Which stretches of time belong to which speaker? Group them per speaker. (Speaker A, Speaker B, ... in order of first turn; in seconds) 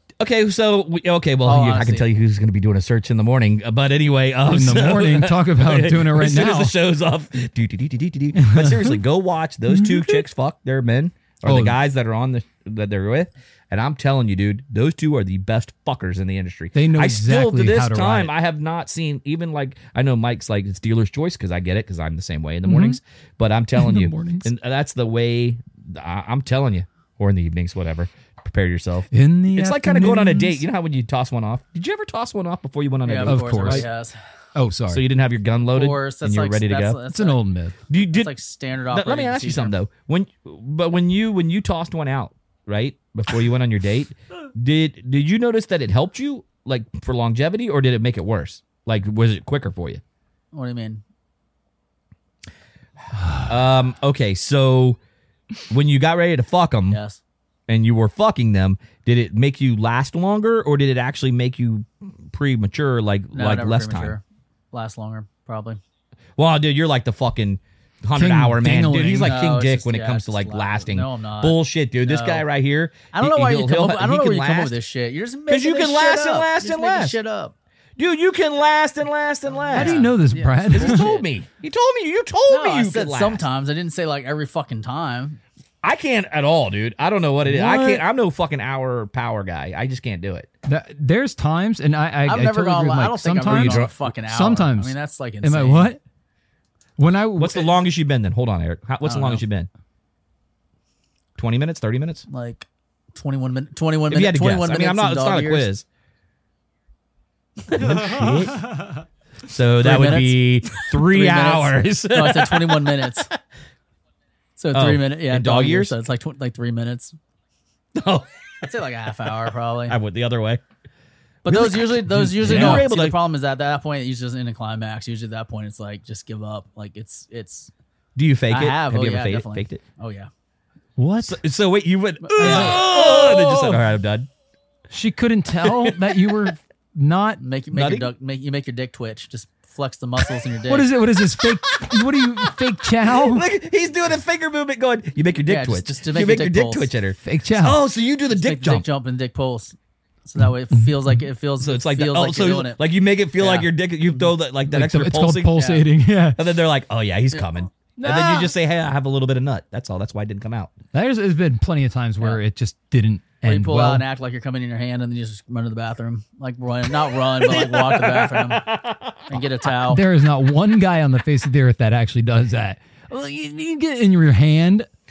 Speaker A: 0.2-33.9, 34.9-37.0, 37.9-38.3, 38.9-50.0, 53.3-55.0, 55.7-57.0, 57.7-64.2, 66.4-74.8, 75.5-77.1, 78.0-80.1, 80.7-83.4, 85.8-90.5, 93.5-93.9, 97.4-99.7, 101.4-102.2, 104.1-105.8, 107.7-108.7, 109.4-113.2, 114.7-116.0, 117.9-118.6, 119.3-120.6, 121.5-123.2, 128.2-129.8, 131.2-134.3, 135.6-136.4, 137.7-138.1, 143.0-148.8, 151.6-155.6, 156.3-160.7, 167.3-169.4
Speaker B: 1.4-2.0, 33.0-34.1, 35.7-37.4, 38.1-39.7, 50.5-51.0, 56.9-57.2, 63.3-65.8, 69.2-72.5, 73.1-77.5, 79.6-81.2, 82.5-85.4, 92.2-95.9, 99.0-99.4, 102.3-105.7, 109.8-113.3, 114.6-117.1, 118.6-120.0, 121.4-127.7, 128.5-130.3, 132.2-133.8, 137.4-140.9, 145.5-146.9, 148.3-149.7, 150.2-152.8, 153.4-153.7, 155.6-155.8, 163.4-168.7, 169.3-170.0
Speaker C: 4.4-6.7, 8.3-8.9, 9.7-10.2, 11.4-11.8, 16.7-18.3, 22.6-23.0, 23.8-24.5, 29.1-30.6, 33.2-33.9, 34.5-35.0, 37.1-37.8, 68.1-69.4, 79.7-81.1, 87.5-88.0, 90.7-96.0, 97.0-97.7, 122.1-122.8, 131.0-131.4, 132.4-132.8, 134.9-137.4, 140.7-143.4, 147.2-147.8, 150.7-151.2, 154.7-156.4, 158.0-158.5, 160.9-164.0, 169.8-174.9